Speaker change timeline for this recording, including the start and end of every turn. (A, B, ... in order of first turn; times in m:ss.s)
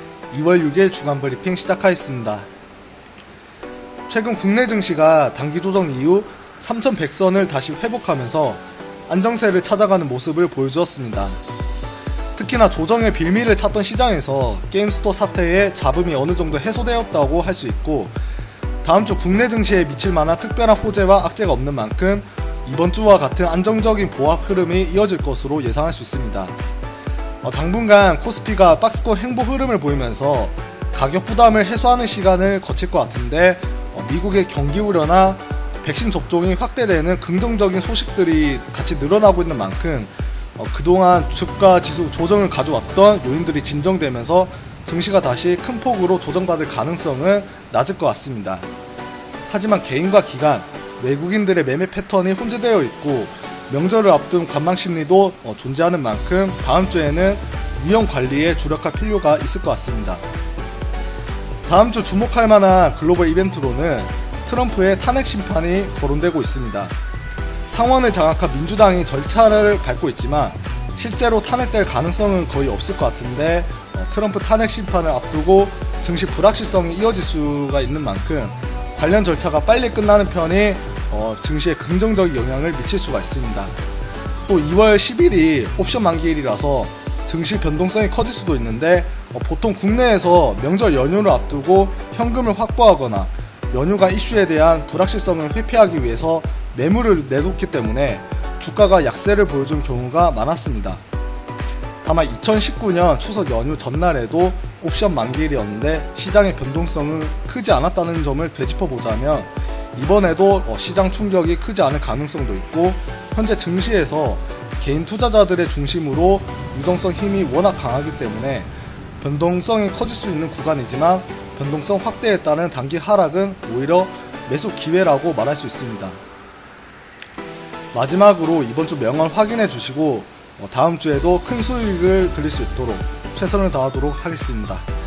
0:00.3-0:02.5 A
0:04.1-0:11.4 A
0:12.4-0:18.1 A
0:18.8-0:26.6 A
0:27.4-0:48.7 A
0:49.5-1:00.2 A
1:01.7-1:06.9 A
1:07.7-1:23.8 A
1:24.5-1:41.0 A
1:42.0-2:06.2 A
2:07.9-2:14.9 A